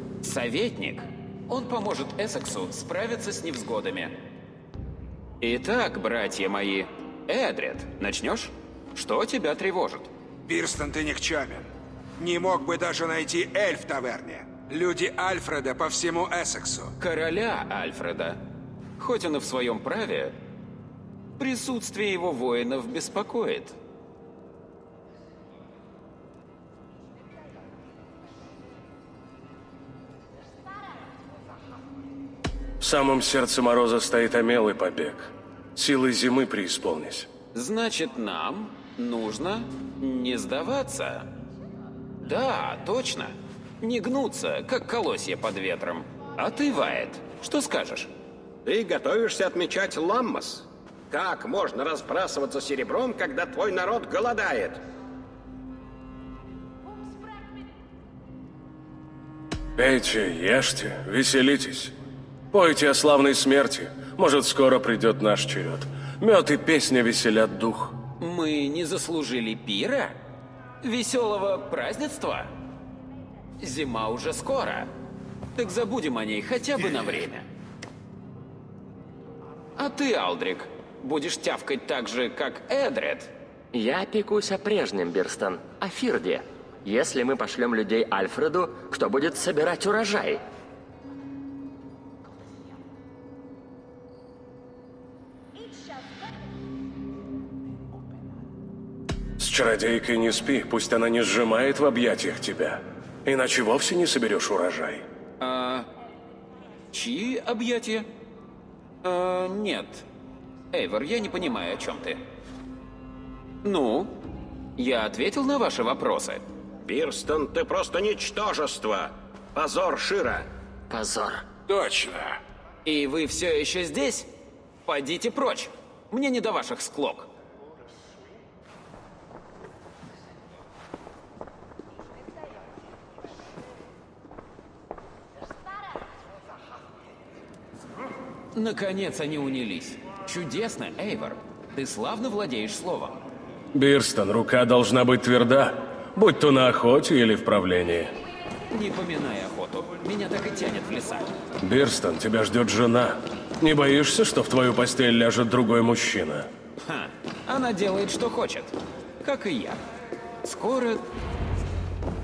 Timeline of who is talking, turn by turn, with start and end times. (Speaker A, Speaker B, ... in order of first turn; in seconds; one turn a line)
Speaker A: 0.2-4.2
Speaker A: 5.4-10.1
Speaker B: 10.5-16.9
Speaker A: 17.0-18.4
Speaker A: 19.0-20.4
Speaker A: 21.4-23.8
Speaker C: 32.8-37.3
Speaker A: 37.5-41.3
Speaker A: 42.2-48.1
Speaker D: 48.6-54.8
Speaker C: 59.8-62.0
Speaker C: 62.5-68.0
Speaker A: 68.2-70.2
Speaker A: 70.8-72.5
Speaker A: 73.6-74.9
Speaker A: 75.5-77.5
Speaker A: 79.8-83.3
Speaker E: 83.7-90.4
Speaker C: 99.4-105.1
Speaker A: 105.4-105.9
Speaker A: 106.9-108.1
Speaker A: 109.0-110.1
Speaker A: 110.7-112.2
Speaker A: 113.6-114.1
Speaker A: 114.8-116.5
Speaker D: 116.8-120.5
Speaker E: 120.9-121.5
Speaker C: 121.7-122.2
Speaker A: 122.8-124.3
Speaker A: 124.8-127.3
Speaker A: 138.6-143.2
Speaker C: 143.7-148.1
Speaker A: 148.7-151.3
Speaker C: 151.6-156.5
Speaker A: 156.8-159.8
Speaker A: 160.4-161.1